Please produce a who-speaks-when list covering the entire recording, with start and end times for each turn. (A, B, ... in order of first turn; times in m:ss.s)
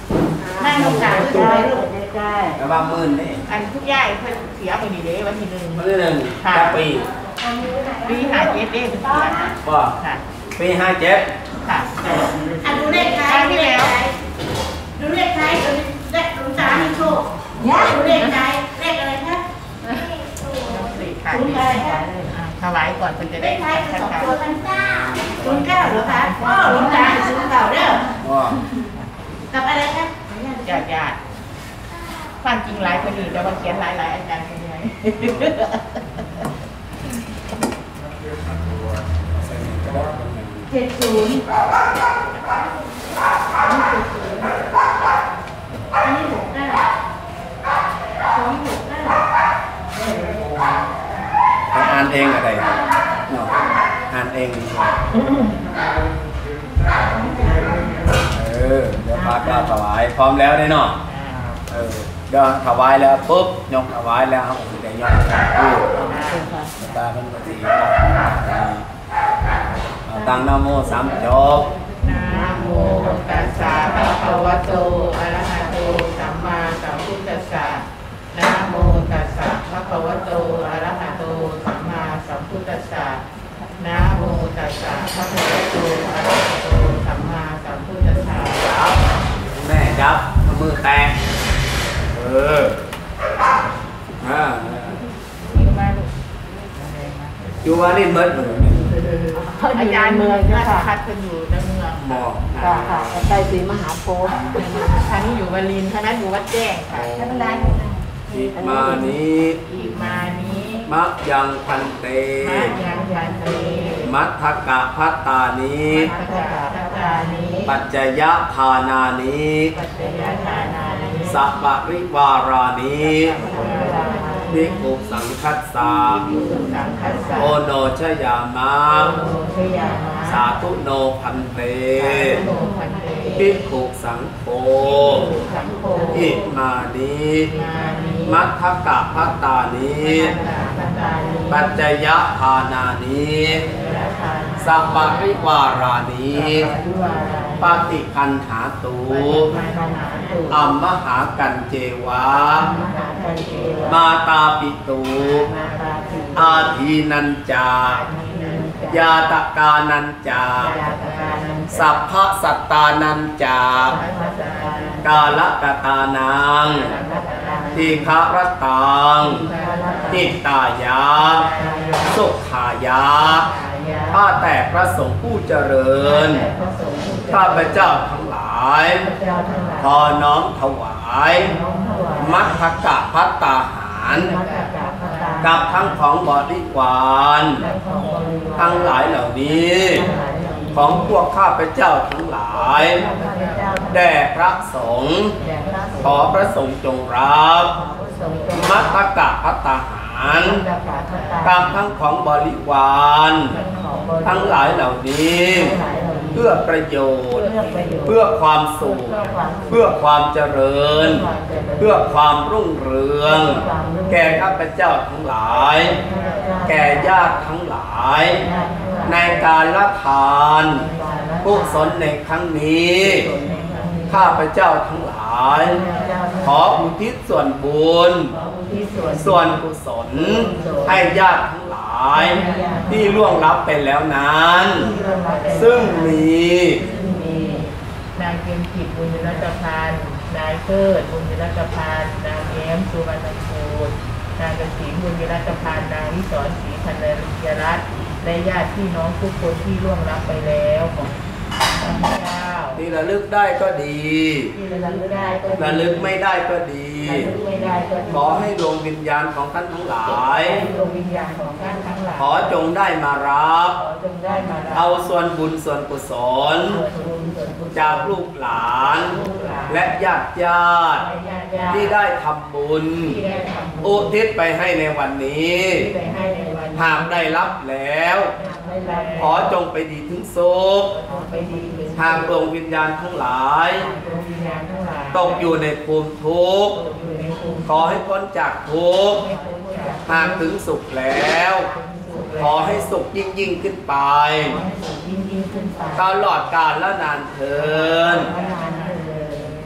0:00.4-0:02.6 A
0:00.6-0:01.7 B
0:02.6-0:03.4 C
0:03.5-0:05.8 B
0:05.7-0:07.1 C
0:06.4-0:06.8 B
0:07.6-0:08.4 A
0:08.0-0:10.2 B
0:09.6-0:09.9 C
0:10.6-0:11.3 C
0:11.6-0:12.2 B
0:12.6-0:14.1 A
0:13.2-0:14.0 B
0:15.0-0:20.3 A
0:20.6-0:24.4 B
0:21.3-0:22.0 A
0:23.3-0:28.1 A
0:24.9-0:25.4 C
0:26.1-0:27.1 B
0:28.2-0:28.6 C
0:29.5-0:30.7 A
0:30.6-0:31.2 B
0:32.4-0:35.8 B
0:35.2-0:35.5 C
0:39.3-0:40.7 C
0:40.7-0:41.4 A
0:46.0-0:46.8 A
0:48.3-0:49.2 A
0:51.7-0:53.5 C
0:54.1-0:55.0 C
0:57.1-0:57.7 A
0:58.3-1:01.0 C
1:01.0-1:01.6 B
1:01.7-1:06.0 C
1:06.0-1:06.6 B
1:06.7-1:08.8 C
1:10.0-1:11.7 C
1:12.0-1:23.2 B
1:23.8-1:28.7 B
1:28.6-1:29.0 C
1:29.5-1:31.2 C
1:32.1-1:32.8 C
1:34.2-1:35.0 C
1:35.5-1:36.1 B
1:37.6-1:38.9 C
1:39.4-1:39.8 D
1:39.7-1:42.3 B
1:41.9-1:43.3 C
1:42.8-1:44.4 D
1:44.5-1:47.1 B
1:46.9-1:49.6 C
1:47.2-1:48.0 A
1:49.7-1:50.8 B
1:50.8-1:52.8 C
1:52.4-1:54.1 B
1:54.0-1:56.1 C
1:56.1-1:57.6 B
1:57.6-1:59.7 C
1:59.9-2:01.3 B
2:01.2-2:03.5 C
2:03.2-2:04.6 B
2:04.5-2:06.3 C
2:06.3-2:07.5 B
2:07.3-2:09.3 C
2:09.3-2:10.2 B
2:10.2-2:12.4 C
2:12.2-2:13.4 B
2:13.3-2:15.3 C
2:15.2-2:16.2 B
2:16.1-2:17.5 C
2:17.6-2:18.2 B
2:18.2-2:20.3 C
2:20.1-2:21.4 B
2:21.5-2:23.6 C
2:23.7-2:24.6 B
2:24.6-2:26.7 C
2:26.7-2:27.6 B
2:27.6-2:29.5 C
2:29.1-2:30.5 B
2:30.5-2:32.7 C
2:32.8-2:33.8 B
2:33.8-2:35.5 C
2:35.4-2:36.1 B
2:36.3-2:38.0 C
2:38.0-2:38.8 B
2:38.9-2:40.8 C
2:40.8-2:41.7 B
2:41.7-2:44.0 C
2:43.9-2:45.0 B
2:45.0-2:46.9 C
2:46.8-2:47.7 B
2:47.7-2:49.4 C
2:49.4-2:50.2 B
2:50.1-2:51.5 C
2:51.4-2:52.1 B
2:52.0-2:53.5 C
2:53.4-2:54.1 B
2:54.1-2:56.5 C
2:57.3-2:59.1 C
2:59.8-3:01.5 C
3:02.2-3:04.3 C
3:05.4-3:07.6 C
3:08.6-3:10.1 C
3:10.7-3:13.0 C
3:13.9-3:15.4 C
3:16.0-3:17.7 C
3:18.5-3:20.7 C
3:21.4-3:23.6 C
3:24.2-3:25.8 C
3:26.3-3:36.0 C
3:36.6-3:38.4 C
3:39.0-3:40.9 C
3:41.4-3:43.3 C
3:44.1-3:45.8 C
3:46.4-3:48.3 C
3:49.1-3:54.9 C
3:54.9-3:56.2 B
3:55.5-3:56.8 C
3:56.8-4:11.1 B
4:11.8-4:12.8 B
4:12.8-4:14.6 C
4:14.7-4:15.5 B
4:15.5-4:17.4 C
4:17.4-4:17.7 B
4:18.1-4:20.6 C
4:21.3-4:22.2 B
4:22.2-4:23.8 C
4:24.7-4:26.8 C
4:27.7-4:31.1 C
4:29.2-4:29.6 B
4:31.1-4:31.8 B
4:31.7-4:33.2 C
4:33.2-4:33.8 B
4:33.8-4:35.9 C
4:36.0-4:36.7 B
4:36.8-4:38.3 C
4:38.8-4:39.1 B
4:39.2-4:40.9 C
4:41.1-4:41.9 B
4:42.0-4:43.9 C
4:44.0-4:45.0 B
4:45.1-4:46.8 C
4:47.0-4:47.6 B
4:47.6-4:49.2 C
4:49.3-4:50.0 B
4:50.0-4:51.7 C
4:51.8-4:52.4 B
4:52.4-4:54.6 C
4:54.6-4:55.9 B
4:55.9-4:58.3 C
4:57.9-4:58.8 B